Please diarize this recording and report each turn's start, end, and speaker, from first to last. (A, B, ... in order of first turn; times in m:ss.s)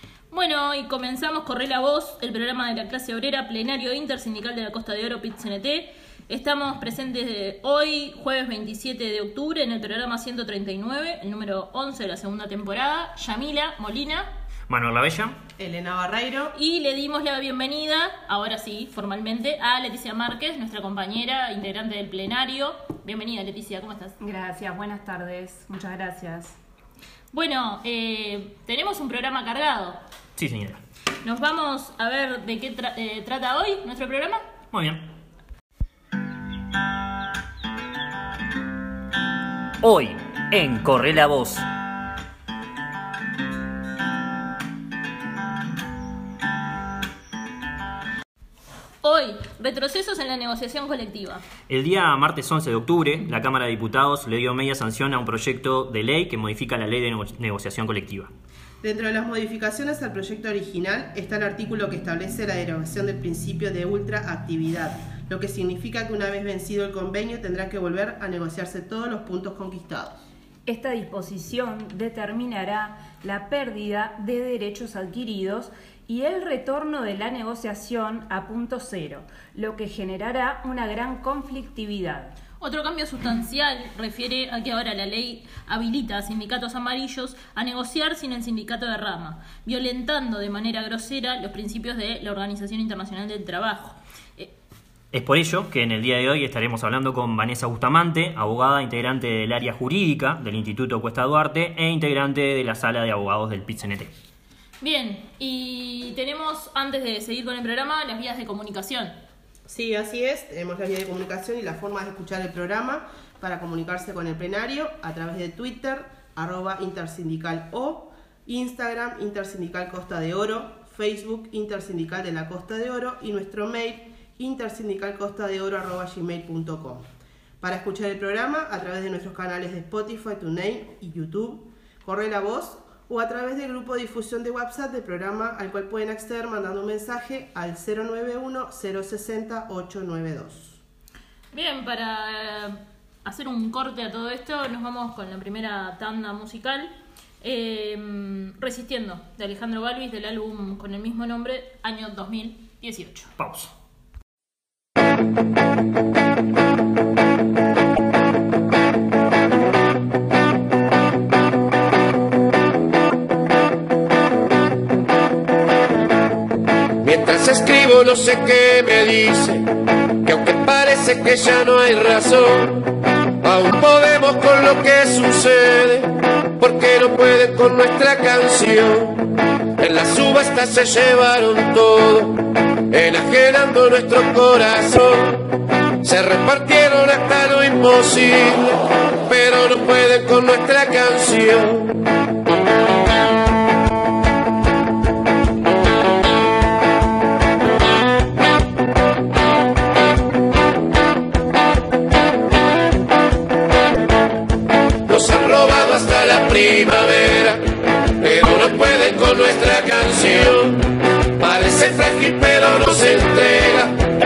0:00.3-0:14.3 A
0:14.7-0:15.4 B
0:15.6-0:16.5 C
0:16.5-0:24.2 A
0:24.2-0:26.6 D
0:27.3-0:30.0 A
0:30.4-0:30.8 B
0:31.2-0:34.4 A
0:34.7-0:35.0 B
0:39.8-0:41.7 B
0:49.0-0:51.4 A
0:51.7-0:58.3 B
0:58.8-1:10.2 C
1:10.7-1:22.4 D
1:22.6-1:34.5 A
1:35.1-1:44.1 B
1:44.8-1:49.2 A
1:49.7-2:07.1 C
2:07.6-2:20.8 C
2:21.5-2:33.3 A
2:33.4-2:33.7 B
2:47.0-2:49.7 E
2:50.2-2:52.9 E
2:53.4-3:05.5 E
3:06.0-3:12.0 E
3:25.1-3:27.6 E
3:28.2-3:33.9 E